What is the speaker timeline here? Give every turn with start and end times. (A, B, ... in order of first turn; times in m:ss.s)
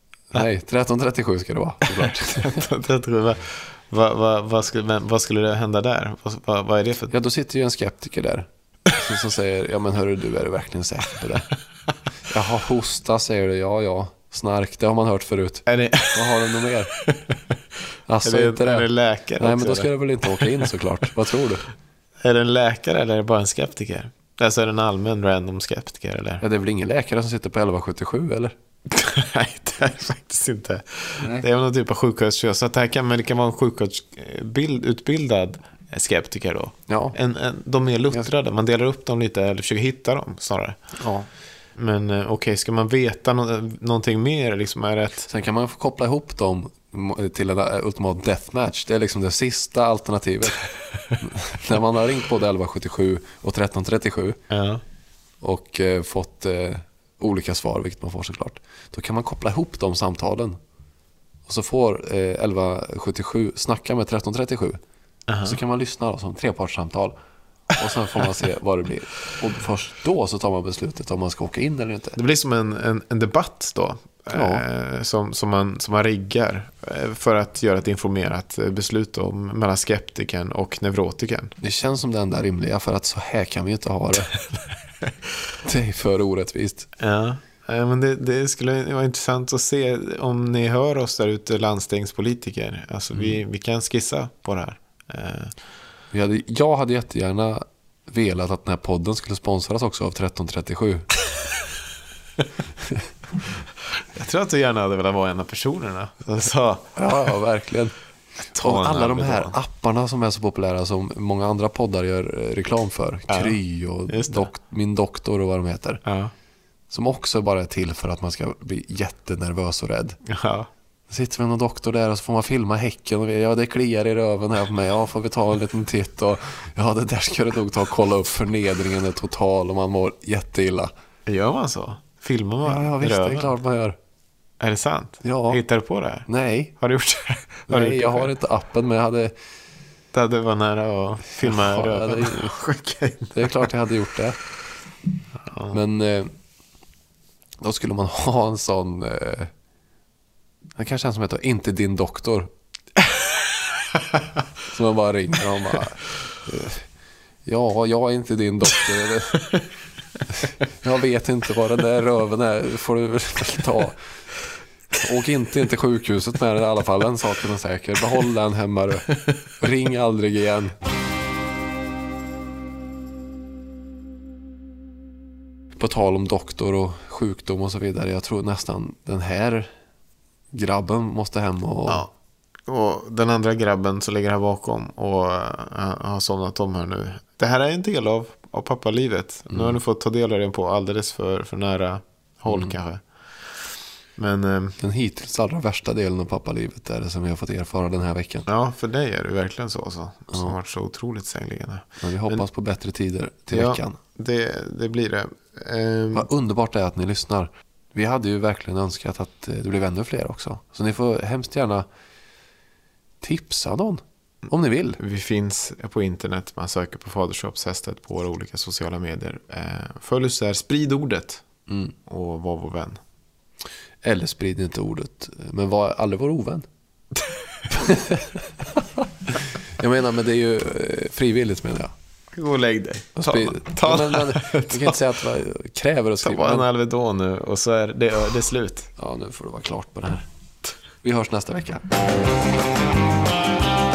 0:00.3-0:02.6 A
0:02.0-0:07.1 B
0:07.1-0:11.5 A
0:12.3-0:16.9 A
0:15.7-0:17.4 B
0:18.1-0:21.6 A
0:18.2-0:20.7 B
0:22.2-0:26.4 B
0:26.4-0:28.6 A
0:28.9-0:40.8 B
0:31.2-0:31.5 A
0:36.9-0:37.2 A
0:41.0-0:41.3 A
0:41.8-0:45.3 B
0:45.3-0:54.4 A
0:54.5-0:54.8 B
0:55.4-1:00.6 A
1:01.5-1:04.8 A
1:05.3-1:05.6 B
1:05.4-1:07.2 A
1:07.8-1:12.2 A
1:12.2-1:21.5 B
1:14.3-1:14.6 A
1:21.6-1:24.4 A
1:25.6-1:26.9 A
1:27.0-1:35.6 B
1:36.1-1:41.1 A
1:44.1-1:47.3 B
1:47.0-1:48.0 A
1:48.4-1:49.6 B
1:48.6-1:56.0 A
1:53.3-1:54.5 B
1:56.0-1:56.3 B
1:56.9-2:00.2 A
2:00.3-2:00.7 B
2:01.1-2:10.9 A
2:11.3-2:13.5 B
2:12.6-2:14.0 A
2:14.6-2:16.3 B
2:15.2-2:15.6 A
2:16.3-2:16.7 A
2:16.8-2:18.3 B
2:17.7-2:19.3 A
2:20.1-2:23.7 B
2:21.4-2:22.6 A
2:23.4-2:24.4 A
2:25.4-2:25.8 B
2:25.7-2:26.3 A
2:27.6-2:29.5 A
2:30.8-2:32.5 A
2:34.7-2:36.9 A
2:37.4-2:39.6 A
2:40.3-2:44.0 A
2:45.0-2:50.8 A
2:55.8-2:59.7 A
3:00.5-3:02.1 A
3:02.7-3:14.8 B
3:09.5-3:09.8 A
3:14.8-3:18.5 A
3:18.5-3:22.4 B
3:22.0-3:24.0 A
3:23.5-3:26.3 B
3:26.1-3:31.9 A
3:33.2-3:35.0 A
3:35.0-3:41.4 B
3:41.7-3:41.9 A
3:42.0-3:43.0 B
3:44.0-3:46.7 A
3:47.7-3:51.9 A
3:52.3-3:55.0 B
3:53.2-3:56.7 A
3:56.2-3:58.9 B
3:59.0-4:00.3 A
4:01.0-4:01.8 A